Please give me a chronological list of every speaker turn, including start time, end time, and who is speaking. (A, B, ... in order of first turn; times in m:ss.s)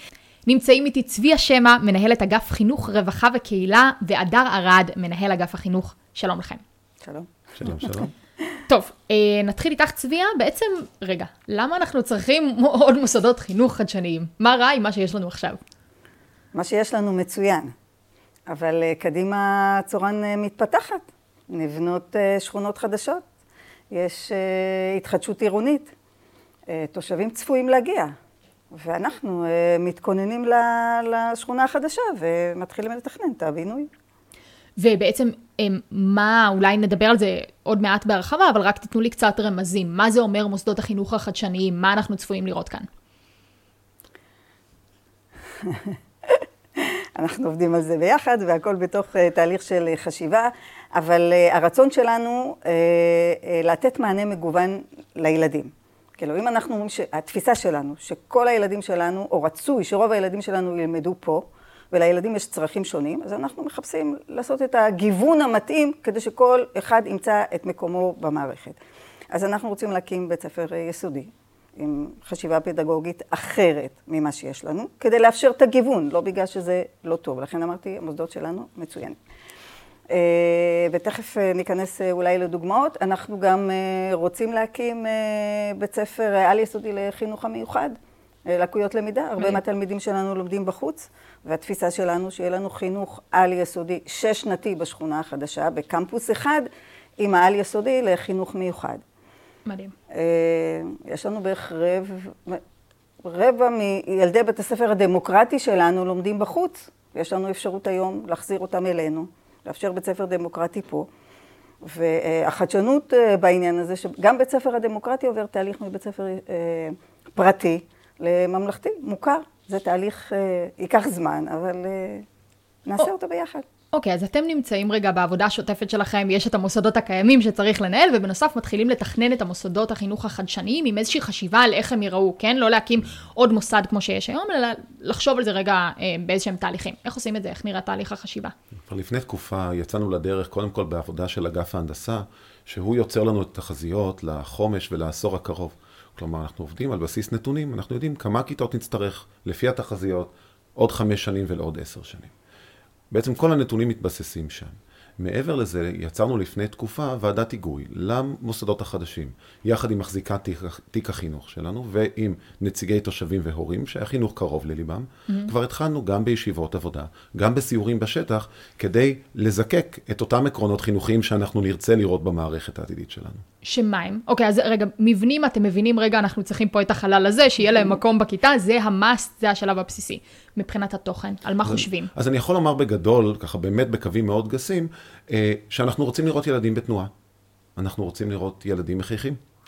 0:00.5-0:06.6 A
0:07.0-0:07.3 B
0:07.6-0:08.1 C
0:08.7-0:15.6 A
0:16.5-0:17.7 B
0:18.5-0:23.2 B
0:23.9-0:25.9 B
0:26.7-0:28.1 B
0:28.7-0:33.9 B
0:34.8-0:42.9 A
0:45.6-1:08.8 B
1:09.3-1:19.2 B
1:20.1-1:28.0 B
1:28.5-1:36.7 B
1:37.2-1:39.0 B
1:39.7-1:39.9 A
1:40.1-1:42.6 B
1:43.2-1:51.1 B
1:51.8-2:02.2 B
2:02.8-2:03.6 B
2:03.9-2:18.5 A
2:18.9-2:32.3 C
2:33.1-2:53.4 C
2:53.6-3:02.1 A
3:01.6-3:07.1 C
3:07.8-3:09.4 C